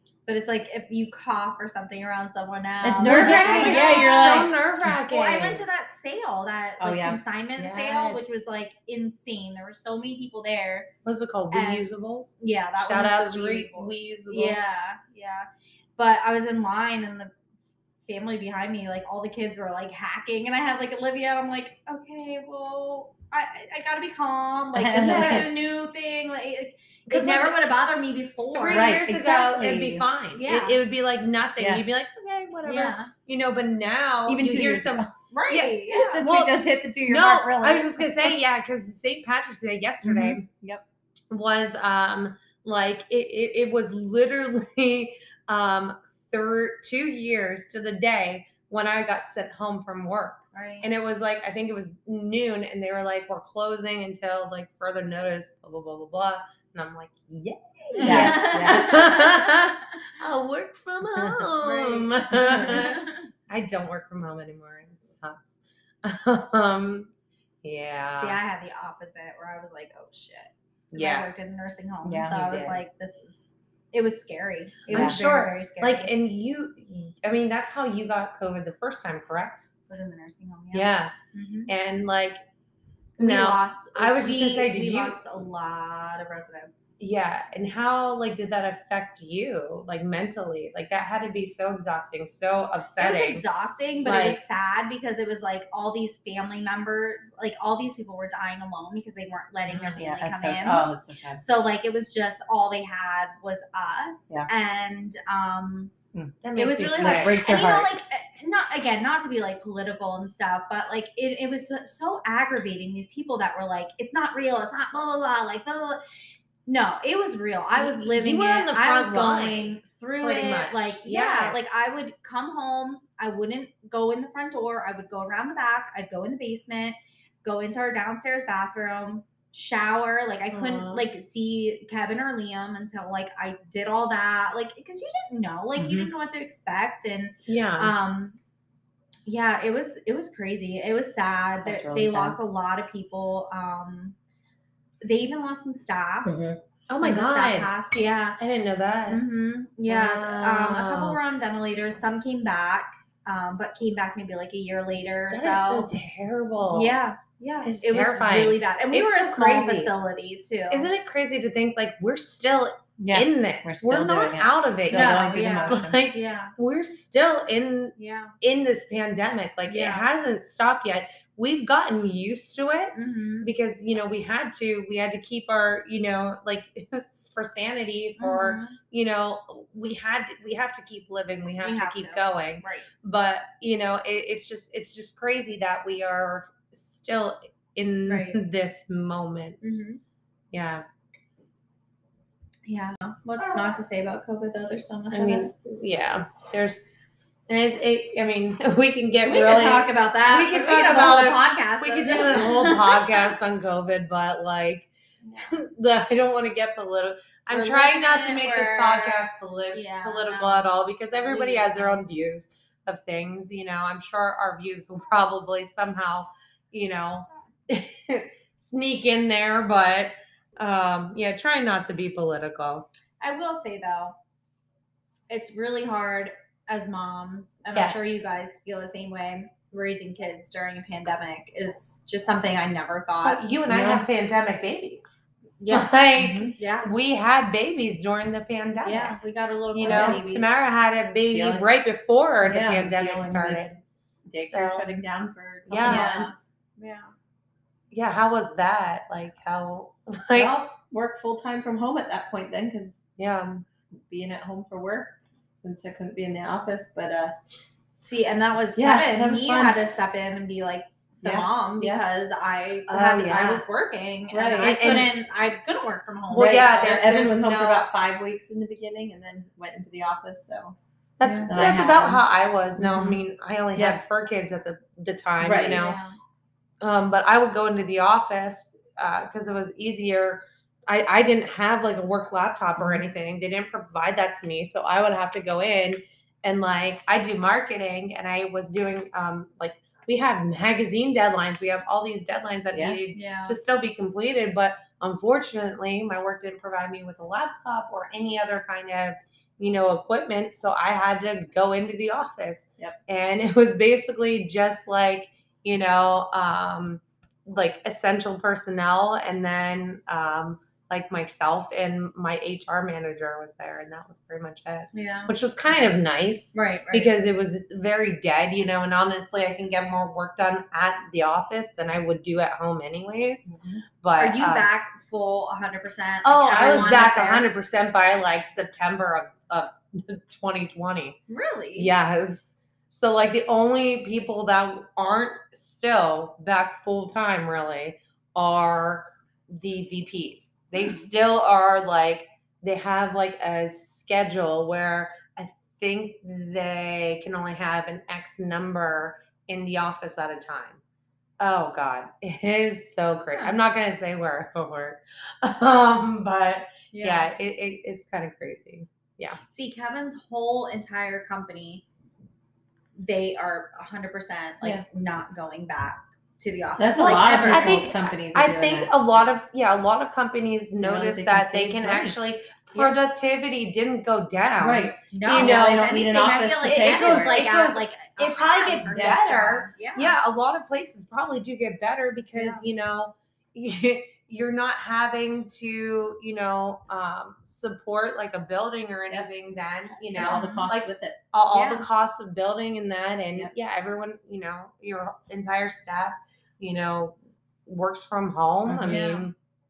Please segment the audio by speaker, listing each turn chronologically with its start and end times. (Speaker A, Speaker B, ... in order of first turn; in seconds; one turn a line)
Speaker A: 0.3-4.5
Speaker B: 2.8-4.5
Speaker C: 3.0-5.6
Speaker A: 5.1-10.9
Speaker B: 6.8-7.2
Speaker C: 7.6-8.4
Speaker C: 11.0-14.7
Speaker A: 11.5-17.3
Speaker A: 18.1-29.0
Speaker B: 24.7-25.6
Speaker C: 24.9-25.6
Speaker C: 27.1-27.6
Speaker C: 28.5-40.5
Speaker B: 28.7-30.1
Speaker A: 30.4-30.8
Speaker B: 31.6-31.8
Speaker A: 32.6-33.1
Speaker B: 34.2-35.1
Speaker A: 35.3-36.2
Speaker B: 36.0-38.4
Speaker B: 40.0-40.8
Speaker C: 41.3-67.1
Speaker A: 50.5-50.9
Speaker A: 58.0-59.7
Speaker B: 58.0-58.9
Speaker B: 61.1-61.5
Speaker A: 61.6-63.2
Speaker B: 62.4-62.8
Speaker C: 67.6-68.4
Speaker A: 68.1-76.1
Speaker C: 70.9-71.3
Speaker B: 72.0-72.8
Speaker C: 74.9-79.7
Speaker B: 74.9-75.2
Speaker A: 79.9-81.7
Speaker C: 80.7-82.4
Speaker C: 83.2-85.2
Speaker A: 83.2-87.0
Speaker C: 87.0-93.4
Speaker A: 93.0-100.9
Speaker C: 94.0-94.4
Speaker C: 99.7-100.0
Speaker B: 100.0-101.4
Speaker A: 101.4-105.9
Speaker C: 106.4-107.4
Speaker A: 106.5-116.0
Speaker B: 107.0-107.9
Speaker A: 116.7-138.4
Speaker C: 117.8-121.7
Speaker C: 130.5-131.0
Speaker B: 135.8-136.1
Speaker C: 137.5-137.9
Speaker A: 139.2-144.1
Speaker B: 141.6-142.4
Speaker A: 145.0-146.3
Speaker B: 146.3-146.6
Speaker C: 146.9-147.7
Speaker A: 146.9-148.4
Speaker C: 148.4-149.2
Speaker A: 149.1-155.9
Speaker C: 149.9-151.2
Speaker C: 155.3-157.0
Speaker A: 156.7-160.9
Speaker C: 157.6-159.9
Speaker C: 160.7-189.8
Speaker B: 163.0-166.0
Speaker A: 164.9-166.5
Speaker A: 168.0-168.3
Speaker A: 169.7-170.1
Speaker A: 172.9-173.5
Speaker A: 178.2-178.8
Speaker A: 181.6-182.9
Speaker A: 188.1-188.4
Speaker A: 189.6-190.0
Speaker C: 190.5-190.8
Speaker A: 192.7-195.5
Speaker C: 195.1-196.9
Speaker C: 197.5-222.8
Speaker A: 199.2-203.3
Speaker A: 207.5-210.7
Speaker A: 211.2-212.0
Speaker A: 223.2-224.2
Speaker A: 225.3-233.4
Speaker B: 227.7-228.2
Speaker C: 233.2-235.2
Speaker B: 233.7-234.1
Speaker A: 235.6-235.9
Speaker C: 235.7-239.2
Speaker B: 236.2-236.5
Speaker A: 236.5-236.9
Speaker A: 238.8-240.4
Speaker C: 239.7-243.8
Speaker B: 239.9-240.2
Speaker B: 241.3-241.7
Speaker B: 242.4-243.7
Speaker B: 244.3-246.5
Speaker C: 244.4-244.9
Speaker C: 245.7-246.2
Speaker A: 245.8-247.1
Speaker C: 247.9-250.6
Speaker B: 250.3-253.1
Speaker C: 253.2-253.6
Speaker B: 253.9-257.4
Speaker A: 258.0-267.0
Speaker B: 258.8-259.8
Speaker B: 261.2-262.0
Speaker C: 262.9-263.6
Speaker B: 264.3-265.1
Speaker C: 264.4-265.1
Speaker B: 266.3-270.8
Speaker C: 266.3-267.9
Speaker C: 271.2-276.0
Speaker A: 271.2-271.9
Speaker B: 271.5-272.2
Speaker B: 272.8-273.2
Speaker B: 273.7-274.0
Speaker B: 275.4-275.8
Speaker A: 275.7-276.2
Speaker C: 276.8-324.7
Speaker B: 282.8-283.0
Speaker B: 292.7-293.0
Speaker A: 293.1-293.6
Speaker A: 314.9-315.3
Speaker A: 316.5-317.1
Speaker B: 323.5-323.8
Speaker A: 324.2-327.4
Speaker C: 326.2-331.2
Speaker A: 331.3-331.9
Speaker C: 331.8-350.8
Speaker A: 340.7-341.1
Speaker C: 351.4-359.4
Speaker A: 353.3-353.6
Speaker A: 356.9-357.3
Speaker A: 359.5-361.8
Speaker A: 362.9-367.9
Speaker B: 366.8-368.9
Speaker C: 367.0-375.9
Speaker B: 370.8-372.2
Speaker A: 372.7-373.0
Speaker B: 374.6-377.4
Speaker A: 375.1-380.1
Speaker C: 376.6-397.1
Speaker B: 378.8-379.2
Speaker A: 382.3-382.6
Speaker B: 390.1-391.2
Speaker A: 390.2-390.7
Speaker A: 391.5-391.9
Speaker C: 397.6-399.3
Speaker B: 398.6-399.0
Speaker A: 398.9-399.3